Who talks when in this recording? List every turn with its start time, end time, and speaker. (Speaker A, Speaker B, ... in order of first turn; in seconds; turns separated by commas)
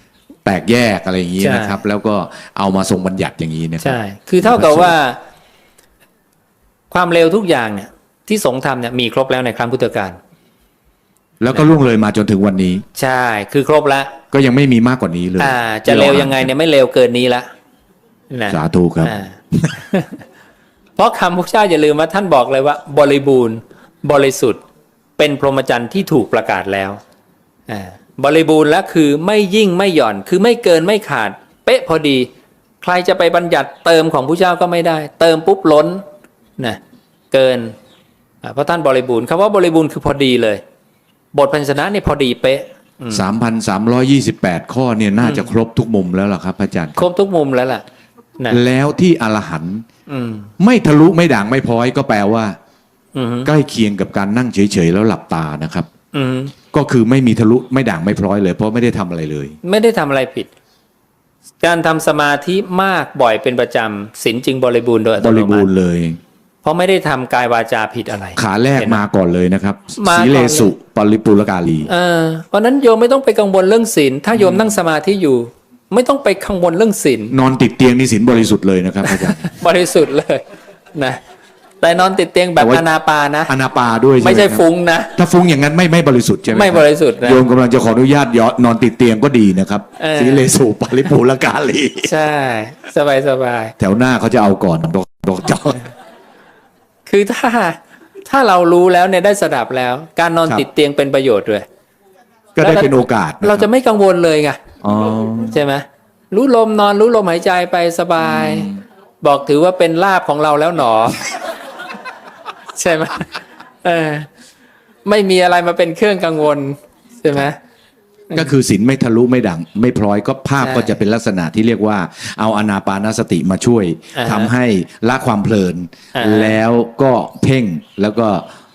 Speaker A: 0.5-5.0, Speaker B: 1.4-1.8, Speaker B: 3.8-5.2, Speaker B: 6.9-10.2, Speaker A: 11.4-12.8, Speaker B: 13.0-14.2, Speaker A: 14.3-16.5, Speaker B: 15.4-17.5, Speaker B: 18.3-20.2, Speaker A: 18.5-19.7, Speaker B: 21.0-24.6, Speaker B: 25.2-27.0, Speaker B: 27.7-32.3, Speaker B: 32.8-36.0, Speaker B: 37.3-37.7, Speaker B: 38.4-40.6, Speaker B: 41.3-43.2, Speaker A: 43.1-47.0, Speaker B: 45.2-45.5, Speaker B: 47.0-47.8, Speaker A: 48.5-49.9, Speaker B: 50.1-50.5, Speaker A: 50.6-52.6, Speaker B: 53.1-53.5, Speaker A: 53.5-55.9, Speaker B: 56.1-56.5, Speaker A: 56.7-59.6, Speaker B: 59.6-60.5, Speaker B: 61.6-65.7, Speaker A: 65.2-66.2, Speaker B: 66.6-69.0, Speaker A: 68.4-71.9, Speaker B: 70.0-70.7, Speaker B: 71.9-77.3, Speaker A: 74.4-74.7, Speaker A: 77.3-79.5, Speaker B: 79.0-81.2, Speaker B: 81.8-83.5, Speaker A: 82.6-82.8, Speaker A: 83.5-84.6, Speaker B: 84.2-85.2, Speaker A: 85.2-92.1, Speaker B: 86.5-87.4, Speaker B: 90.0-90.5, Speaker B: 92.0-93.7, Speaker A: 93.8-95.9, Speaker B: 97.1-101.7, Speaker A: 102.5-103.7, Speaker B: 102.6-104.6, Speaker A: 104.8-105.6, Speaker B: 105.5-108.7, Speaker A: 108.2-108.8, Speaker B: 109.2-111.5, Speaker B: 112.7-114.3, Speaker B: 115.0-117.6, Speaker A: 118.3-128.5, Speaker B: 120.6-121.0, Speaker B: 124.2-124.5, Speaker B: 126.2-126.6